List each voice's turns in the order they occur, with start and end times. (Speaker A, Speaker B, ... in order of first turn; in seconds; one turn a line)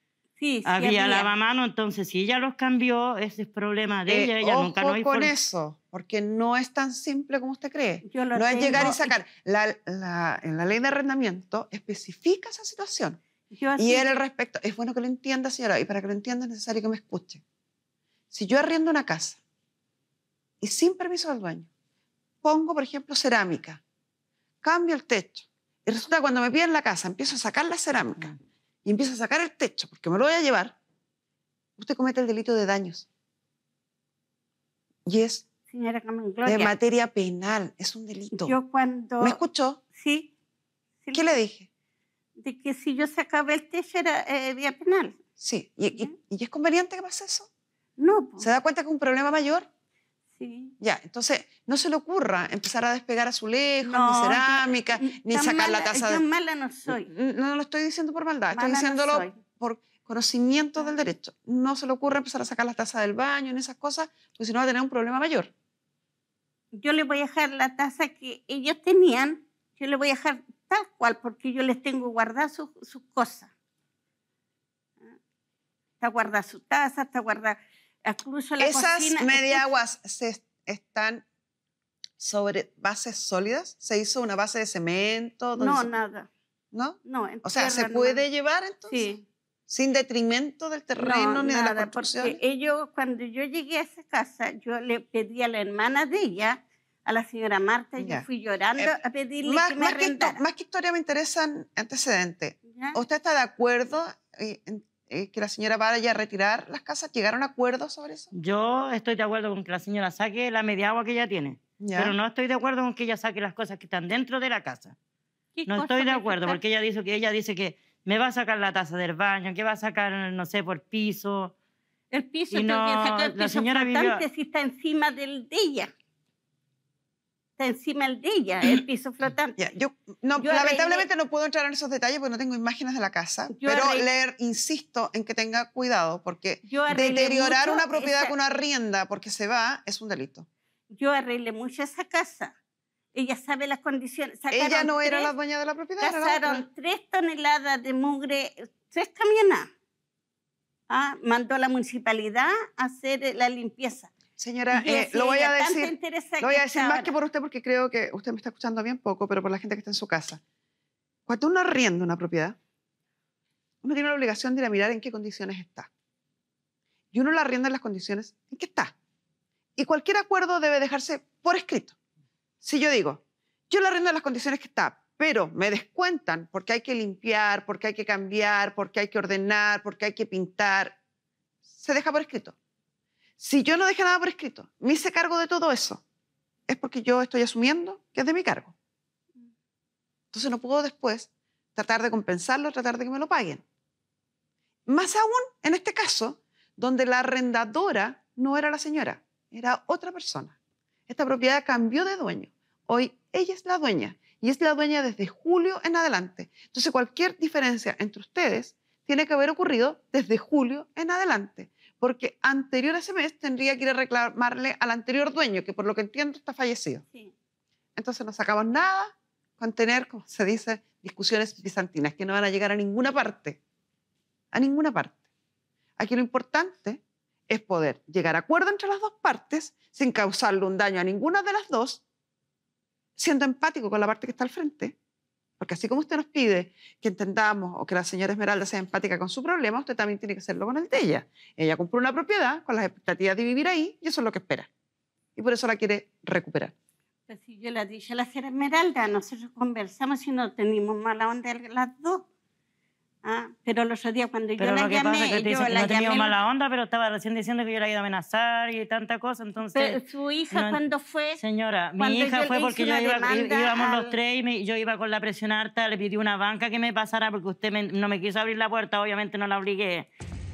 Speaker A: 0.4-1.3
Speaker B: 0.6-5.3
Speaker C: 4.1-13.2
Speaker A: 8.0-9.1
Speaker A: 13.5-14.1
Speaker C: 13.8-17.4
Speaker C: 18.3-19.4
Speaker C: 20.6-21.7
Speaker C: 22.4-23.8
Speaker C: 24.6-30.8
Speaker C: 31.8-33.1
Speaker C: 35.0-35.4
Speaker A: 35.7-36.7
Speaker C: 36.4-38.5
Speaker A: 38.3-39.4
Speaker C: 39.2-39.8
Speaker A: 39.9-40.3
Speaker A: 41.0-41.3
Speaker C: 41.1-41.7
Speaker A: 42.4-45.2
Speaker C: 45.4-47.5
Speaker A: 48.0-48.5
Speaker C: 48.4-49.7
Speaker A: 50.4-50.7
Speaker C: 50.8-56.2
Speaker A: 53.8-57.1
Speaker C: 56.9-65.5
Speaker A: 58.5-59.4
Speaker A: 66.7-73.5
Speaker A: 76.0-79.8
Speaker C: 78.6-81.2
Speaker C: 82.2-85.9
Speaker A: 85.6-86.3
Speaker C: 86.7-89.1
Speaker A: 87.0-88.2
Speaker A: 88.9-89.2
Speaker C: 89.7-92.4
Speaker A: 91.0-100.4
Speaker C: 98.0-98.2
Speaker C: 98.8-108.3
Speaker A: 102.7-103.0
Speaker B: 108.3-115.0
Speaker C: 111.8-112.1
Speaker A: 115.5-116.6
Speaker B: 115.7-121.5
Speaker A: 122.1-125.9
Speaker B: 122.5-124.2
Speaker A: 127.6-129.6
Speaker C: 129.6-140.5
Speaker A: 130.4-131.1
Speaker A: 133.5-134.1
Speaker A: 136.6-138.3
Speaker A: 140.9-142.5
Speaker A: 143.1-145.3
Speaker C: 144.5-146.6
Speaker A: 146.0-149.7
Speaker A: 150.9-154.1
Speaker C: 154.4-160.4
Speaker A: 154.7-157.1
Speaker C: 161.3-162.6
Speaker C: 163.8-165.9
Speaker C: 167.1-168.9
Speaker C: 169.8-171.9
Speaker C: 172.6-181.0
Speaker C: 181.7-182.6
Speaker C: 183.4-186.0
Speaker C: 186.7-188.7
Speaker C: 190.3-193.6
Speaker C: 194.9-200.6
Speaker C: 201.1-217.0
Speaker C: 217.9-223.6
Speaker C: 224.5-225.2
Speaker C: 226.0-232.0
Speaker C: 233.2-234.9
Speaker C: 235.6-244.7
Speaker C: 245.3-246.7
Speaker A: 247.3-252.2
Speaker A: 253.2-256.4
Speaker B: 254.6-260.0
Speaker A: 259.7-261.4
Speaker B: 260.5-260.8
Speaker B: 261.4-270.1
Speaker A: 262.0-264.1